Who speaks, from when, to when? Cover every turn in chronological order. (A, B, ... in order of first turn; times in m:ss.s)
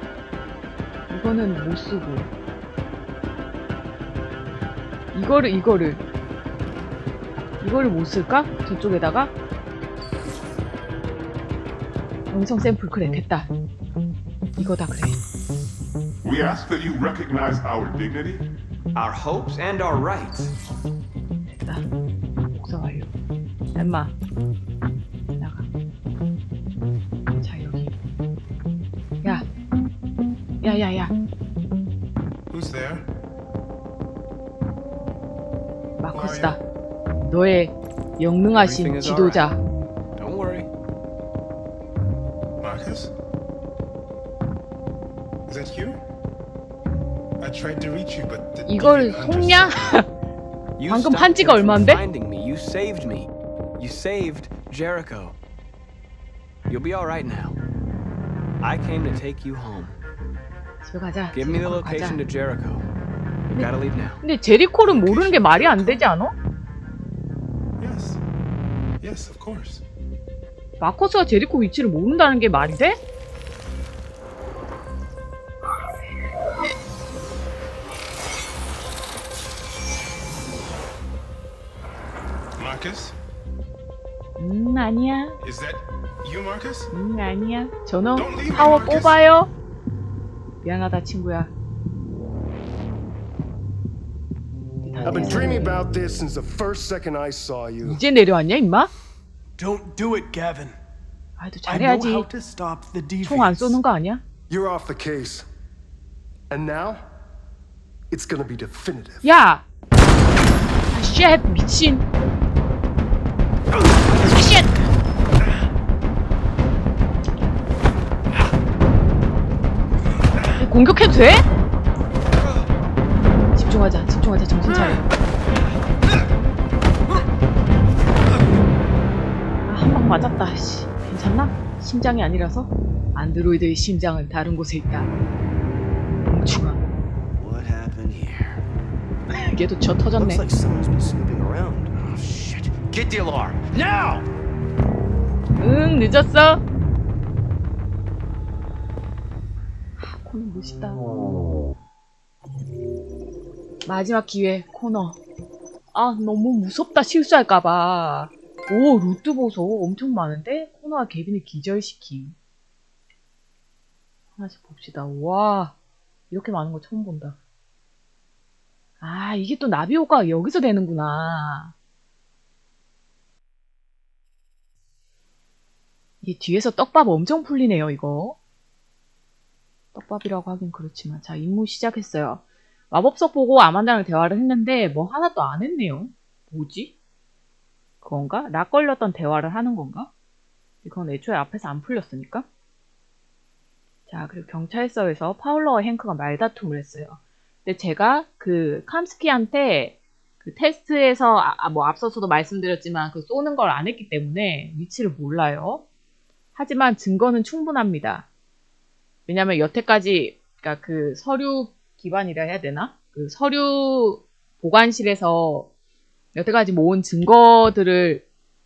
0:01.1-0:02.3 A
0:05.1-0:06.0 A
0:07.6-0:09.3 A
0:12.3-0:13.5 A
0:14.6-0:15.2 A
0:16.2-0:18.4 B
0:19.0-0:20.5 C
0:21.5-0:21.8 A
0:22.5-0:23.1 A
0:23.8-0:24.1 A
0:25.4-0:25.7 A
0:27.4-0:27.9 A
0:30.6-0:31.1 A
0:32.5-0:33.1 D
0:36.0-0:36.6 A
0:36.1-0:36.6 D
0:37.2-0:39.6 A
0:38.5-0:39.5 C
0:40.2-0:40.7 C
0:42.6-0:43.1 D
0:45.5-0:46.0 D
0:47.4-0:49.9 D
0:48.7-0:50.1 A
0:50.8-0:55.4 C
0:50.9-0:52.0 A
0:56.7-0:57.6 C
0:58.6-0:59.9 C
1:00.8-1:02.2 A
1:01.3-1:02.8 C
1:03.5-1:04.2 C
1:03.5-1:06.4 A
1:04.8-1:06.1 D
1:07.8-1:08.2 D
1:09.0-1:09.8 D
1:10.8-1:13.0 A
1:22.6-1:23.2 D
1:24.4-1:25.4 A
1:25.4-1:26.9 D
1:26.9-1:29.5 A
1:28.2-1:29.2 D
1:30.6-1:31.5 A
1:34.8-1:35.8 A
1:35.0-1:38.0 E
1:37.8-1:38.9 A
1:39.6-1:40.8 F
1:41.4-1:42.3 A
1:41.7-1:43.8 F
1:43.2-1:44.2 A
1:44.5-1:45.5 E
1:46.5-1:47.0 E
1:48.1-1:49.3 E
1:49.2-1:49.6 A
1:50.9-1:52.0 A
1:53.7-1:54.9 A
2:00.6-2:01.5 A
2:03.5-2:05.1 A
2:09.7-2:15.1 A
2:16.3-2:16.8 A
2:17.4-2:18.6 G
2:19.3-2:20.4 A
2:20.2-2:24.2 G
2:25.6-2:26.6 A
2:30.0-2:31.0 A
2:33.9-2:35.2 A
2:35.9-2:42.4 A
2:44.4-2:45.8 A
2:46.3-2:47.4 A
2:49.0-2:51.7 A
2:56.2-2:58.4 A
2:59.9-3:06.9 A
3:08.0-3:10.1 A
3:10.8-3:12.5 A
3:14.1-3:25.8 A
3:26.6-3:28.3 A
3:29.3-3:35.7 A
3:36.4-3:38.2 A